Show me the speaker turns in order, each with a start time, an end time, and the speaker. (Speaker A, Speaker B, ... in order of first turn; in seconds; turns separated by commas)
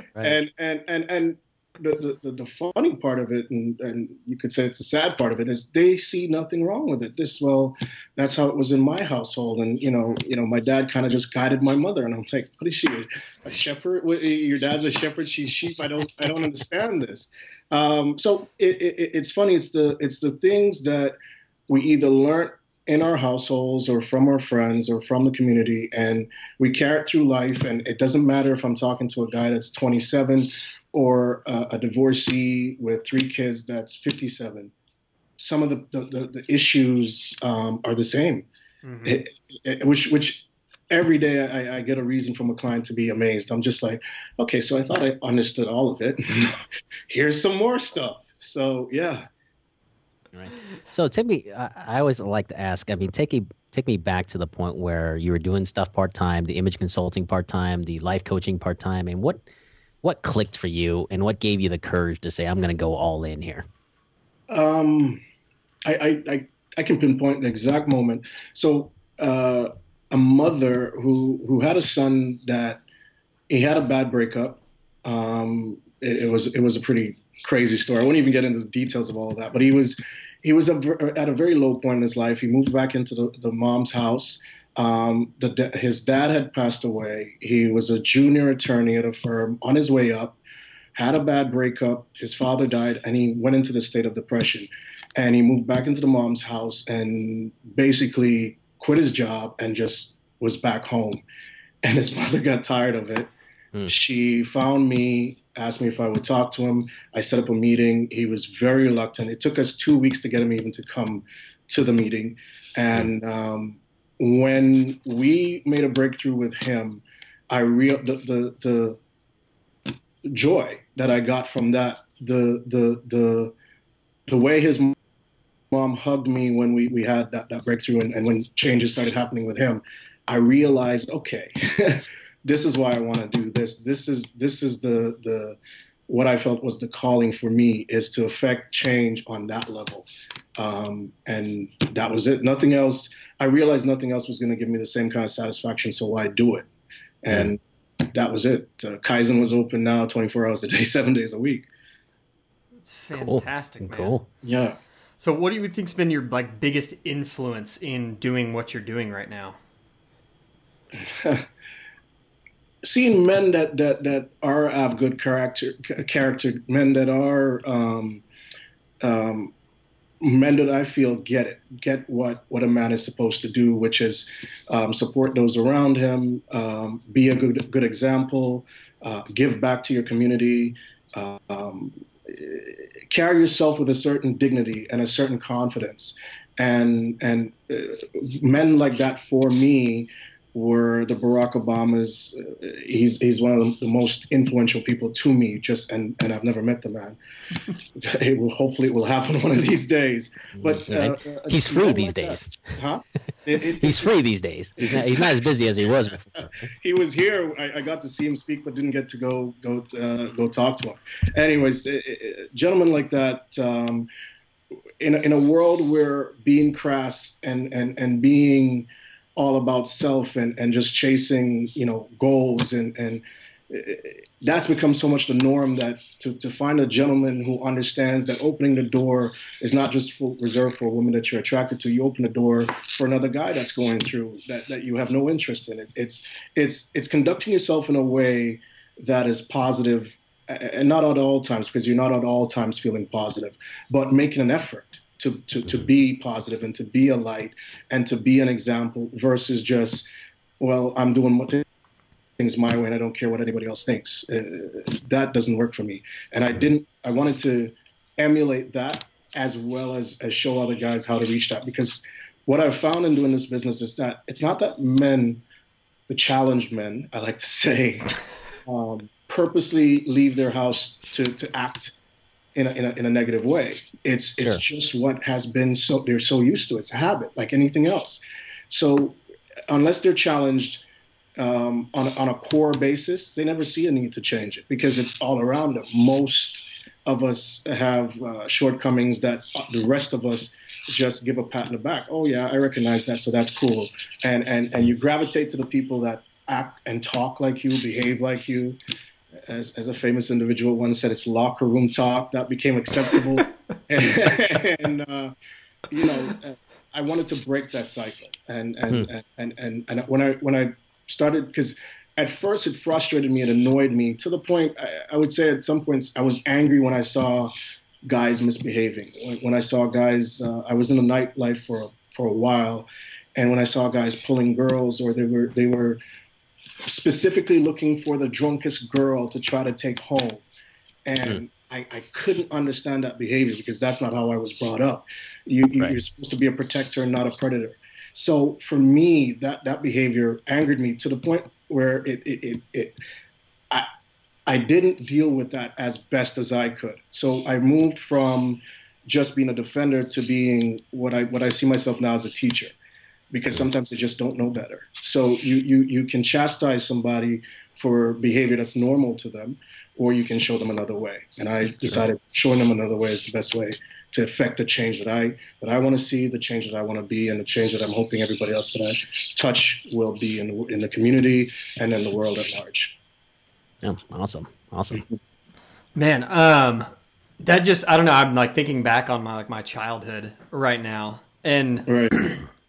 Speaker A: 0.2-21.2, Speaker A: 21.7-34.7, Speaker A: 35.4-38.5, Speaker B: 38.8-39.2, Speaker A: 39.0-49.3, Speaker C: 50.3-59.4, Speaker C: 60.0-63.7, Speaker A: 64.5-65.2, Speaker A: 65.9-72.8, Speaker A: 73.5-90.4, Speaker A: 91.0-101.2, Speaker A: 101.8-103.3, Speaker A: 103.9-119.0, Speaker A: 120.3-123.5, Speaker A: 124.3-125.0, Speaker A: 125.7-146.7, Speaker A: 147.2-151.7, Speaker B: 152.8-154.2, Speaker C: 153.1-154.2, Speaker A: 154.4-154.8, Speaker B: 155.2-159.6, Speaker A: 160.9-161.5, Speaker A: 162.8-168.2, Speaker A: 169.0-169.5, Speaker A: 170.2-197.2, Speaker A: 198.0-204.2, Speaker C: 200.6-202.5, Speaker C: 203.8-206.7, Speaker A: 204.8-205.5, Speaker A: 206.8-214.1, Speaker A: 215.0-250.1, Speaker A: 250.6-251.7, Speaker A: 252.4-265.4, Speaker A: 266.1-268.1, Speaker A: 268.7-271.9, Speaker A: 272.6-280.8, Speaker A: 281.4-298.8, Speaker A: 299.5-305.3, Speaker A: 305.9-317.5, Speaker B: 306.1-306.4, Speaker A: 318.1-326.0, Speaker A: 326.9-330.4, Speaker A: 331.1-343.0, Speaker A: 344.5-352.7, Speaker A: 353.3-372.9, Speaker C: 373.8-375.1, Speaker B: 375.9-376.9, Speaker B: 377.4-382.4, Speaker A: 381.9-382.2